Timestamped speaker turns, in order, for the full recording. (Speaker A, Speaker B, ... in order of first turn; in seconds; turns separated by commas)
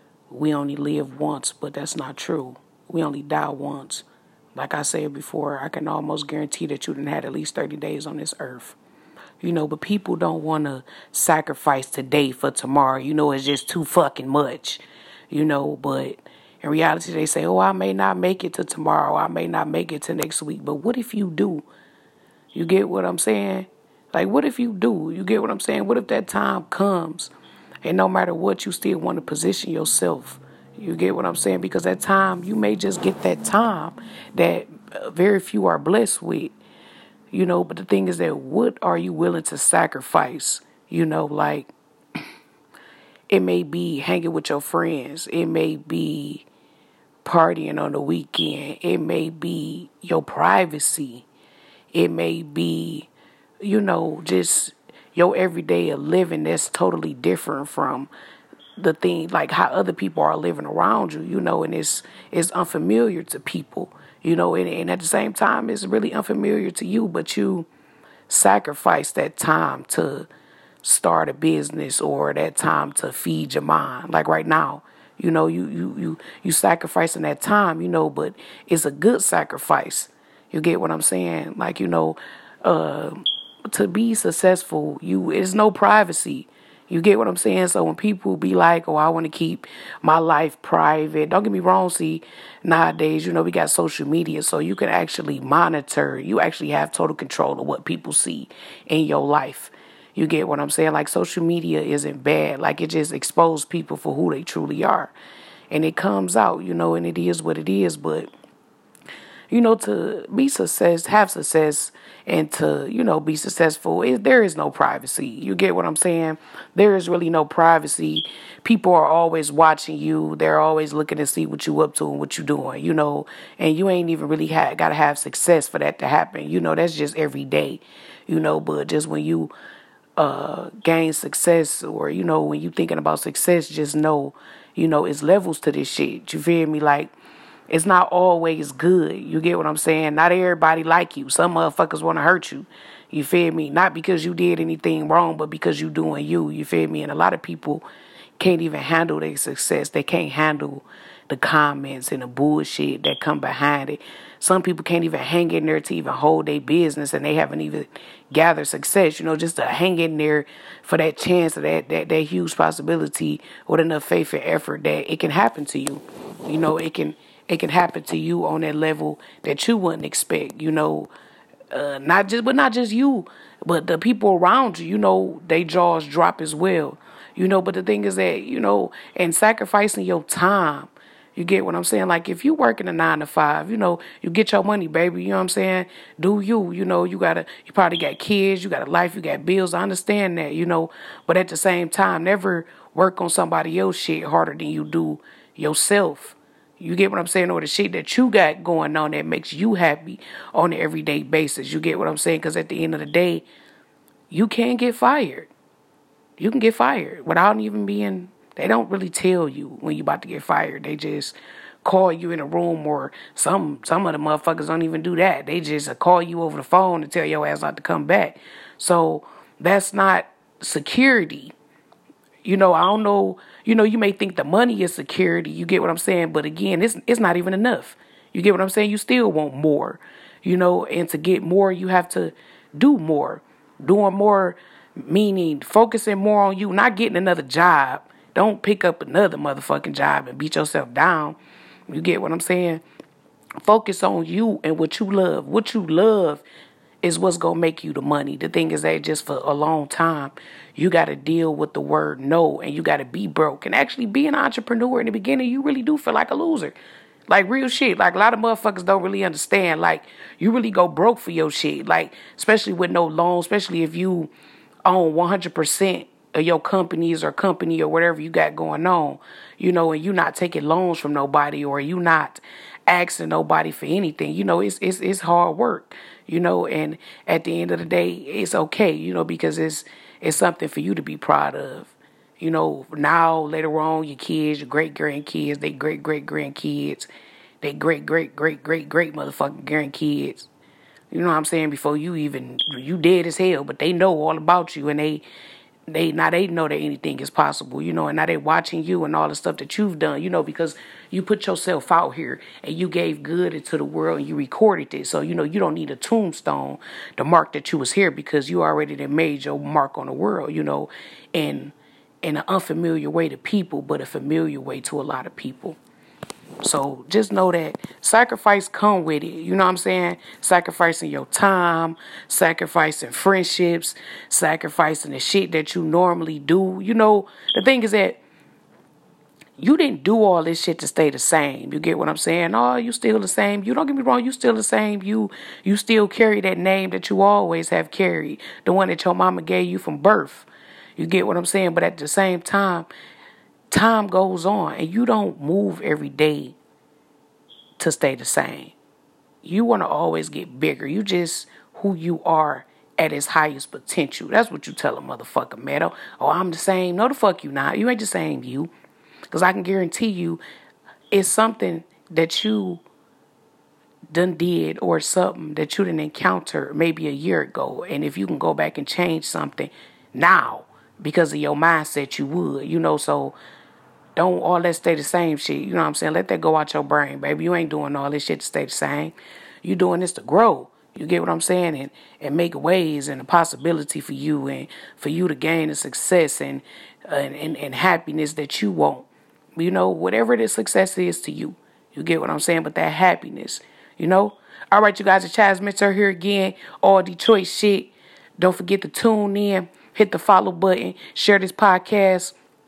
Speaker A: 0.3-8.8, Speaker A: 9.4-21.7, Speaker A: 22.5-27.3, Speaker A: 27.8-36.5, Speaker A: 37.3-41.7, Speaker A: 43.3-46.5, Speaker A: 47.2-51.3, Speaker A: 51.9-53.1, Speaker A: 53.6-58.1, Speaker A: 58.8-67.7, Speaker A: 68.3-70.3, Speaker A: 70.8-105.1, Speaker A: 105.7-108.3, Speaker A: 109.5-129.5, Speaker A: 130.2-137.1, Speaker A: 137.7-147.8, Speaker A: 148.4-171.1, Speaker A: 171.7-203.4, Speaker A: 204.3-205.5, Speaker A: 206.4-221.5, Speaker A: 222.4-241.4, Speaker A: 241.9-242.8, Speaker A: 243.6-246.4, Speaker A: 247.0-256.8, Speaker A: 257.3-264.3, Speaker A: 264.9-287.1, Speaker A: 287.6-290.5, Speaker A: 291.1-295.2, Speaker A: 295.9-315.8, Speaker A: 316.6-328.2, Speaker A: 329.6-342.9, Speaker A: 343.7-346.6, Speaker A: 347.8-348.7, Speaker A: 349.4-358.7, Speaker A: 359.3-360.4, Speaker A: 361.1-362.8, Speaker A: 364.1-373.4, Speaker A: 374.2-402.4